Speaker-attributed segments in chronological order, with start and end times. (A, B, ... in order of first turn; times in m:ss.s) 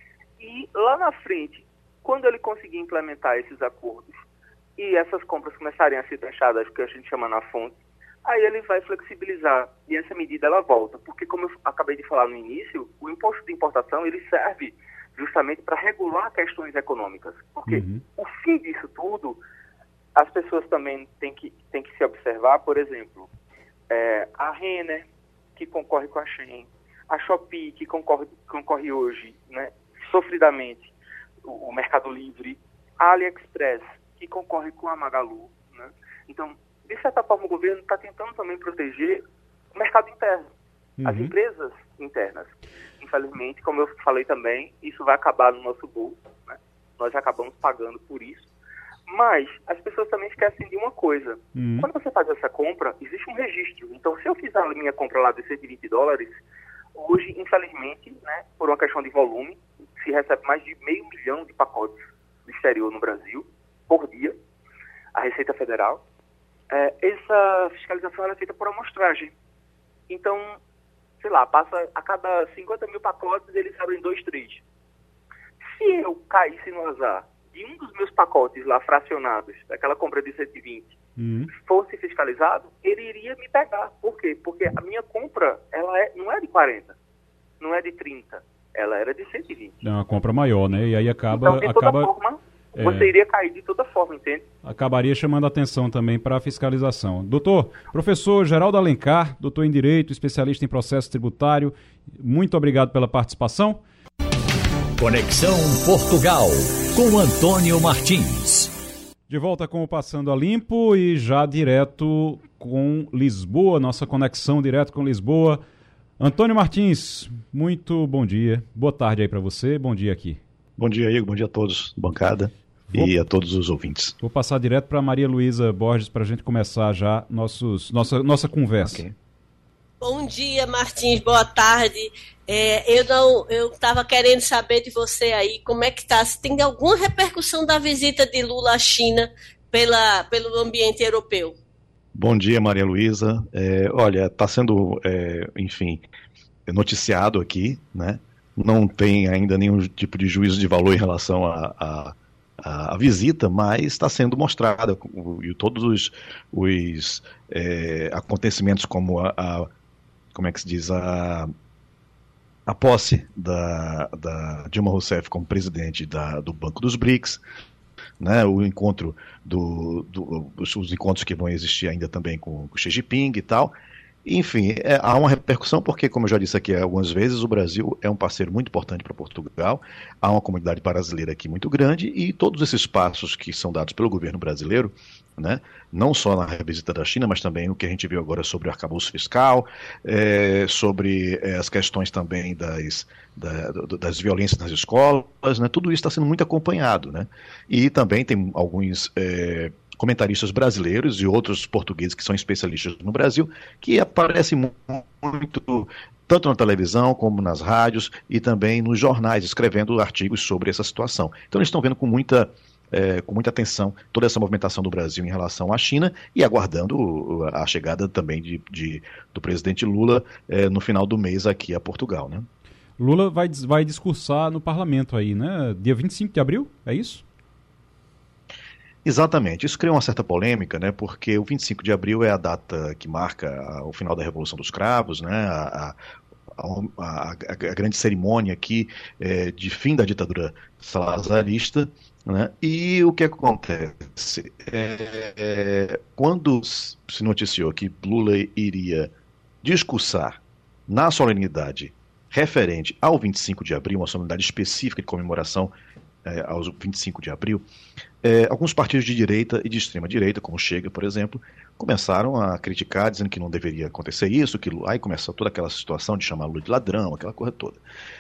0:00.4-0:04.2 A
0:04.8-0:19.4 A
0:17.7-0:18.0 B
0:20.1-0:23.3 A
0:23.9-0:30.9 A
0:31.4-0:39.2 A
0:39.7-0:40.4 A
0:41.0-0:41.4 B
0:41.0-0:48.5 A
0:49.1-0:56.4 A
0:51.6-0:51.9 B
0:56.9-1:04.4 A
1:05.1-1:06.0 A
1:06.7-1:09.3 A
1:10.1-1:10.6 A
1:11.2-1:14.6 A
1:15.7-1:21.0 A
1:21.2-1:21.5 B
1:21.6-1:27.0 A
1:27.6-1:29.8 A
1:29.8-1:32.1 B
1:31.3-1:34.5 A
1:32.8-1:33.1 B
1:34.6-1:43.8 B
1:45.0-1:48.7 C
1:49.3-1:55.6 B
1:56.2-2:00.4 B
2:00.8-2:04.1 D
2:04.2-2:09.0 B
2:10.0-2:21.6 E
2:22.1-2:26.0 D
2:26.7-2:39.7 D
2:40.3-2:41.5 D
2:42.7-2:47.4 D
2:48.2-3:42.5 D
3:43.0-3:47.2 B
3:49.0-3:56.0 D
3:56.6-4:09.1 D
4:09.6-4:15.7 D
4:16.2-4:17.6 D
4:18.2-4:27.8 D